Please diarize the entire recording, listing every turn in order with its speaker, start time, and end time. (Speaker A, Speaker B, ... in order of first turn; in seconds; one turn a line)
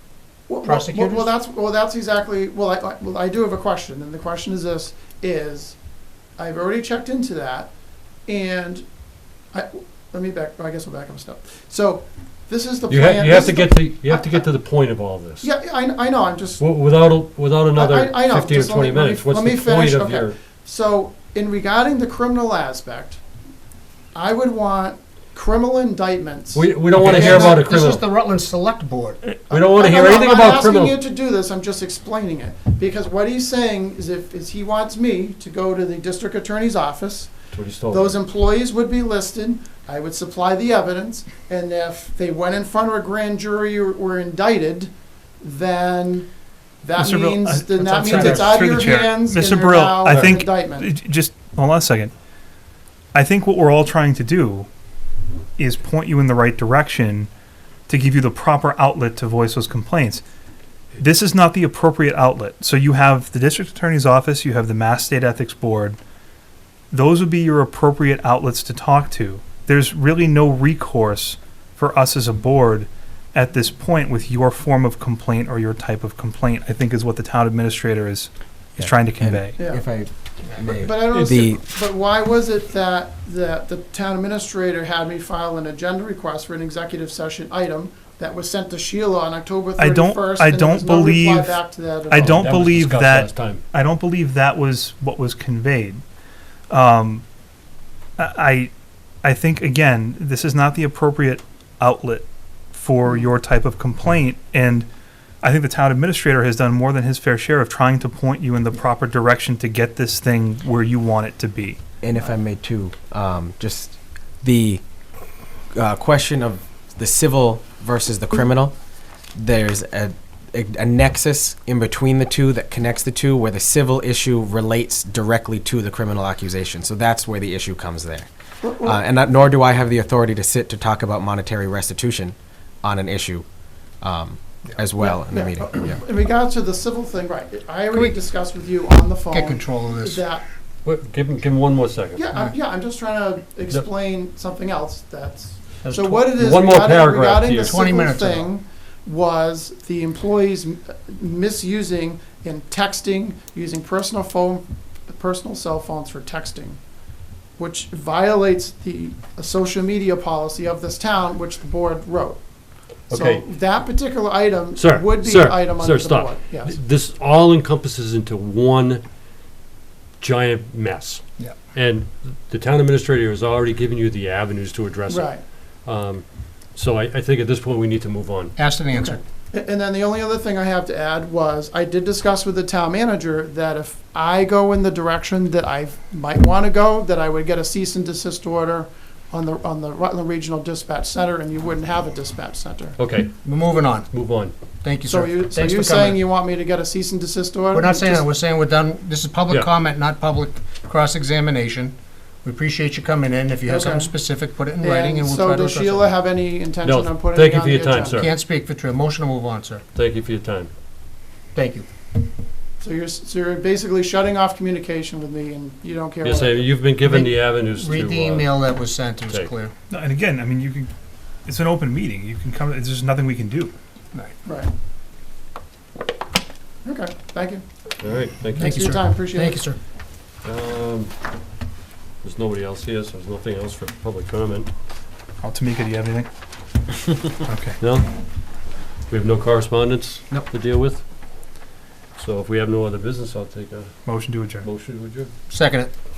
Speaker A: 0.5-5.8
Speaker B: 0.6-1.3
Speaker A: 6.4-7.7
Speaker A: 8.3-8.8
Speaker A: 9.5-14.5
Speaker C: 12.9-15.5
Speaker A: 15.4-16.6
Speaker C: 16.6-20.4
Speaker A: 17.7-23.2
Speaker A: 24.1-27.6
Speaker C: 26.5-28.0
Speaker B: 26.9-29.2
Speaker A: 29.5-37.3
Speaker C: 29.5-31.0
Speaker C: 37.5-38.2
Speaker A: 37.9-46.3
Speaker A: 46.8-50.9
Speaker D: 47.0-52.1
Speaker B: 48.0-48.5
Speaker C: 50.1-50.4
Speaker D: 53.1-54.7
Speaker D: 55.6-57.3
Speaker D: 57.9-60.2
Speaker D: 61.0-66.0
Speaker D: 66.9-79.6
Speaker E: 78.8-81.6
Speaker A: 79.6-79.8
Speaker A: 80.8-92.4
Speaker C: 81.1-81.4
Speaker D: 89.8-96.0
Speaker C: 92.2-93.6
Speaker D: 96.7-97.2
Speaker D: 98.2-98.7
Speaker D: 99.2-104.9
Speaker D: 105.4-111.8
Speaker E: 112.0-114.8
Speaker E: 115.7-118.7
Speaker E: 119.3-133.5
Speaker A: 128.6-129.0
Speaker E: 134.0-136.0
Speaker A: 135.0-140.4
Speaker B: 139.3-140.3
Speaker C: 140.8-142.3
Speaker A: 142.2-156.8
Speaker B: 145.8-146.3
Speaker C: 146.4-147.8
Speaker B: 147.6-148.5
Speaker A: 157.6-162.4
Speaker C: 163.1-163.4
Speaker A: 163.1-166.8
Speaker C: 164.8-169.0
Speaker C: 170.2-178.6
Speaker A: 175.1-175.4
Speaker B: 178.6-179.2
Speaker A: 178.9-193.0
Speaker C: 193.0-193.4
Speaker B: 193.4-194.1
Speaker C: 194.1-194.5
Speaker B: 194.8-196.2
Speaker A: 195.1-198.3
Speaker B: 197.7-206.1
Speaker A: 203.7-204.2
Speaker A: 204.8-208.2
Speaker C: 206.8-208.3
Speaker B: 208.2-209.8
Speaker C: 209.9-210.7
Speaker B: 211.5-211.9
Speaker A: 212.8-216.8
Speaker C: 216.2-218.5
Speaker B: 217.0-219.7
Speaker D: 219.9-220.9
Speaker D: 221.4-223.7
Speaker A: 224.4-224.7
Speaker A: 226.8-227.6
Speaker C: 228.0-228.9
Speaker B: 228.6-229.8
Speaker A: 228.6-229.6
Speaker C: 230.4-231.1
Speaker C: 232.2-234.7
Speaker D: 235.4-236.3
Speaker D: 237.4-237.8
Speaker C: 237.8-238.2
Speaker C: 239.1-241.1
Speaker C: 242.2-244.0
Speaker D: 244.1-244.7
Speaker C: 244.6-245.3
Speaker B: 245.5-245.9